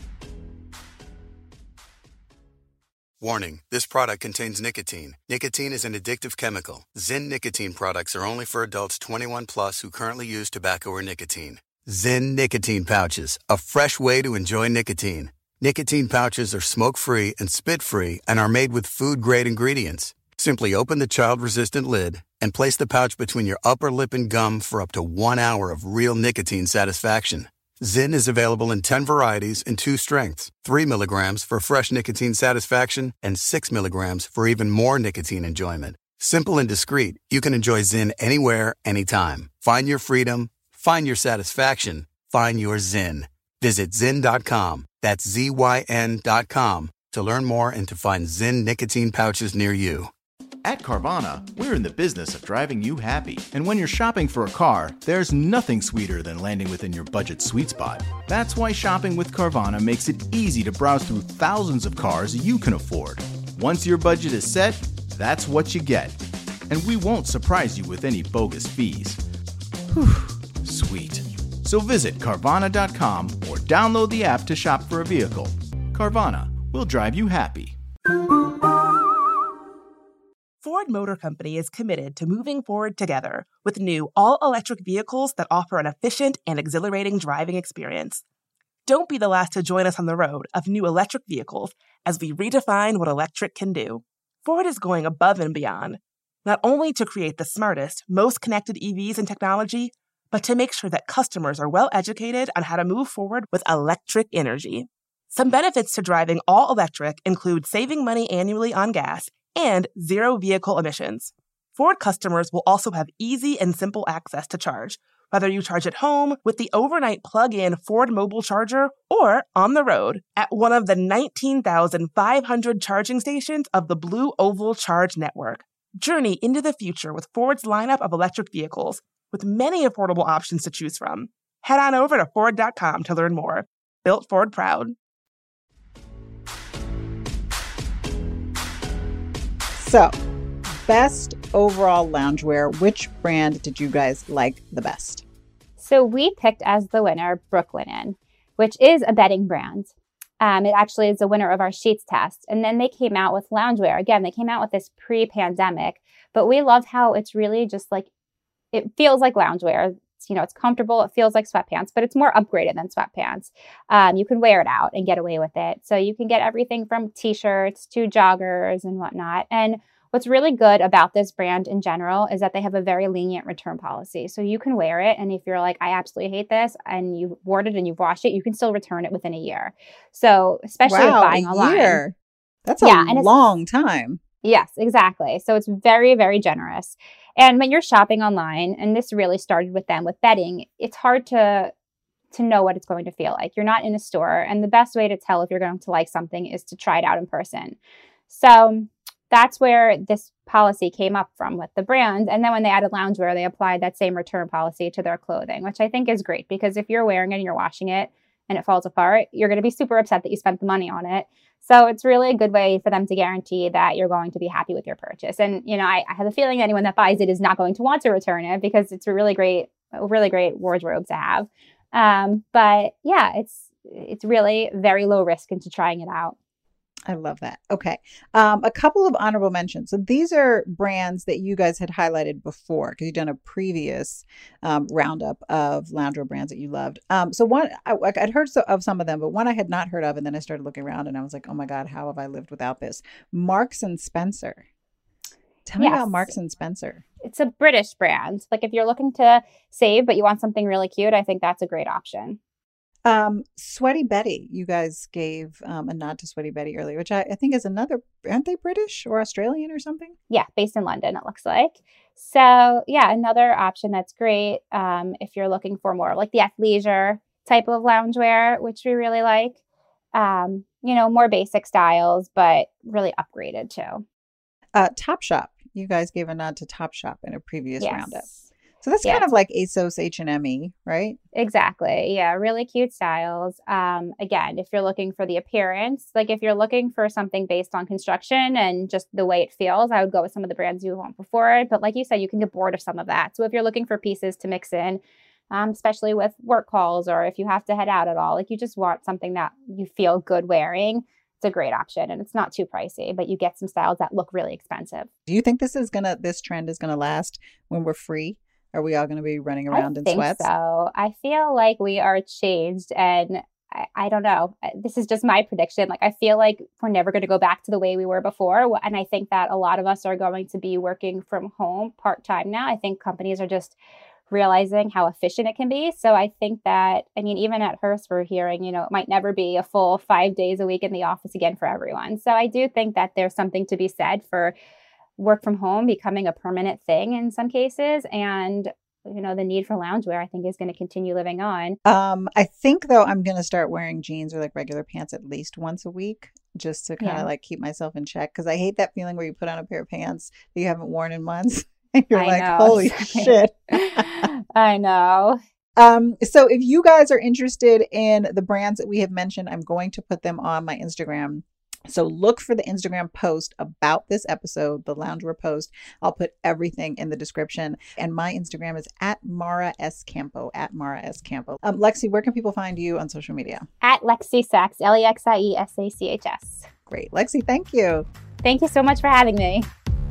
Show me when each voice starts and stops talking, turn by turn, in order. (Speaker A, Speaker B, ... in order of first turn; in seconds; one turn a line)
Speaker A: 3.2-50.1
Speaker B: 50.6-69.2
Speaker B: 70.1-77.8
Speaker C: 80.6-88.2
Speaker C: 88.9-134.9
Speaker D: 139.8-140.2
Speaker D: 140.8-145.2
Speaker E: 145.8-158.1
Speaker E: 158.7-182.0
Speaker D: 180.8-184.2
Speaker E: 182.8-183.3
Speaker E: 184.4-191.7
Speaker E: 192.3-197.8
Speaker E: 198.3-226.3
Speaker D: 227.1-244.7
Speaker D: 245.7-247.0
Speaker E: 245.8-246.3
Speaker E: 247.2-252.4
Speaker D: 253.1-260.1
Speaker E: 260.3-269.6
Speaker E: 270.1-274.0
Speaker D: 274.8-278.3
Speaker E: 277.8-278.3
Speaker D: 278.8-281.2
Speaker E: 281.4-305.1
Speaker D: 305.3-310.5
Speaker E: 309.7-323.8
Speaker E: 324.3-334.5
Speaker E: 335.2-341.8
Speaker D: 341.9-354.3
Speaker E: 347.0-347.3
Speaker E: 352.1-355.4
Speaker D: 355.8-373.7
Speaker E: 373.8-376.7
Speaker D: 376.9-378.1
Speaker E: 378.4-379.7